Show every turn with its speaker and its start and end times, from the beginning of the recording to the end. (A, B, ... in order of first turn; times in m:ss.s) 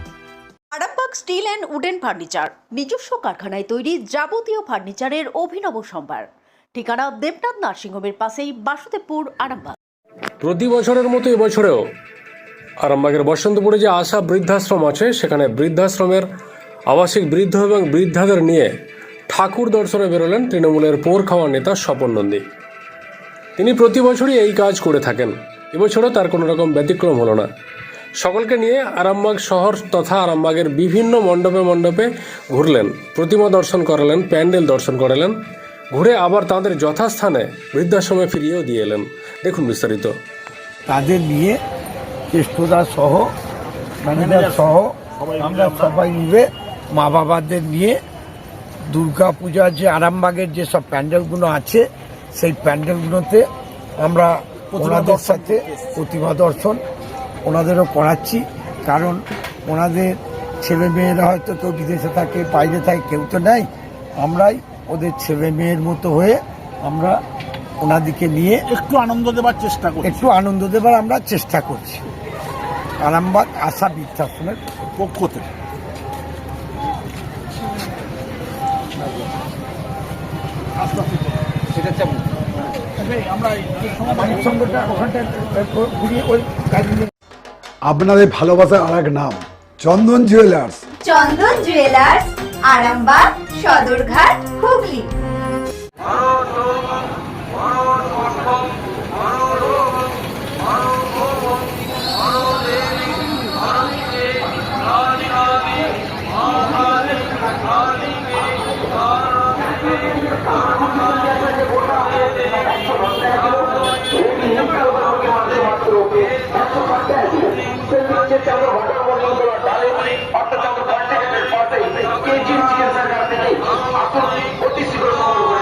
0:00.7-0:09.7 A
0:10.4-0:11.8 B
0:12.8-0:16.3 B
0:16.9-0:18.7 B
0:19.3-0:22.4 B
0:23.6-0:27.5 B
0:28.2-0:35.3 B
0:35.9-0:40.1 B
0:40.9-0:41.6 C
0:42.3-0:43.3 C
0:44.0-0:48.0 C
0:48.9-0:53.5 C
0:54.0-0:56.8 C
0:54.8-0:55.2 D
0:57.4-1:07.2 C
1:07.8-1:08.7 C
1:08.7-1:10.1 D
1:10.0-1:12.0 C
1:13.0-1:14.6 C
1:15.0-1:15.5 D
1:23.2-1:24.0 D
1:24.1-1:27.1 C
1:27.8-1:30.8 E
1:31.0-1:35.1 F